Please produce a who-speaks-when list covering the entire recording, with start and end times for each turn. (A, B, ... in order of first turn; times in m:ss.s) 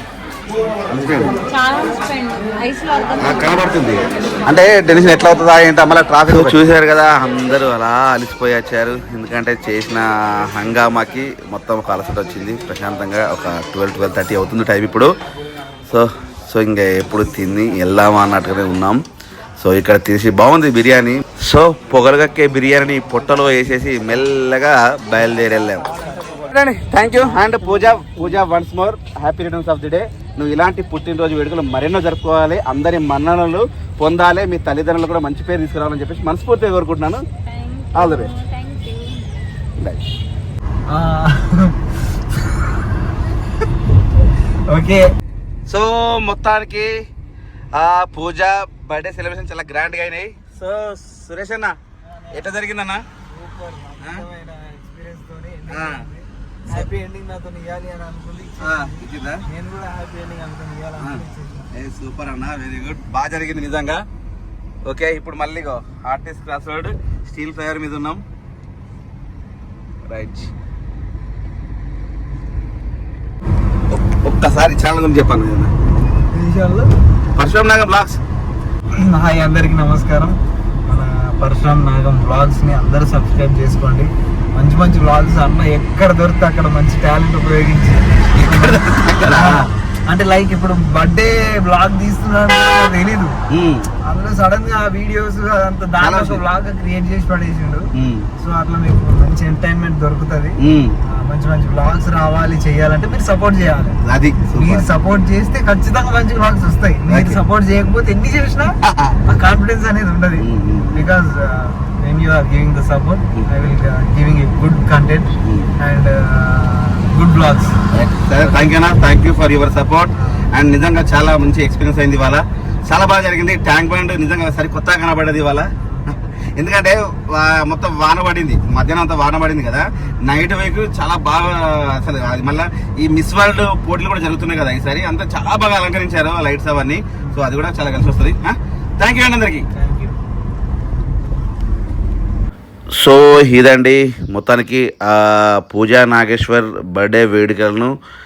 0:00.9-0:01.4 A
0:01.5-0:03.6 B
0:03.2-0:15.1 A
0:15.8-0:19.0 A
0:19.6-0:25.9 A
0:25.7-0:26.5 C
0:26.5-0:37.2 A
0:27.1-0:28.1 C
0:37.4-0:39.4 B
0:37.9-0:38.3 A
0:40.9-0:42.8 C
0:44.7-0:45.1 C
0:45.7-0:46.9 A
0:47.7-0:51.7 A
0:52.0-0:52.5 C
0:52.3-0:53.0 A
0:53.2-1:01.7 C
0:55.7-0:56.0 A
0:58.6-0:59.5 A
1:01.7-1:04.0 A
1:04.8-1:08.2 A
1:10.1-1:10.5 A
1:13.9-1:15.7 A
1:16.3-1:16.9 C
1:17.3-1:18.2 A
1:19.1-1:33.3 C
1:28.4-1:29.7 A
1:33.5-1:33.9 A
1:34.0-1:37.8 C
1:36.0-1:36.4 A
1:38.0-1:38.2 A
1:38.4-1:40.6 C
1:40.6-1:40.9 A
1:41.1-1:44.0 C
1:44.0-1:44.9 A
1:44.5-1:48.7 C
1:47.1-1:47.4 A
1:48.8-1:49.2 A
1:49.2-1:57.7 C
1:50.4-1:51.0 A
1:55.4-1:55.7 A
1:57.9-2:19.7 A
2:00.2-2:00.4 C
2:19.7-2:20.2 C
2:23.0-2:27.9 A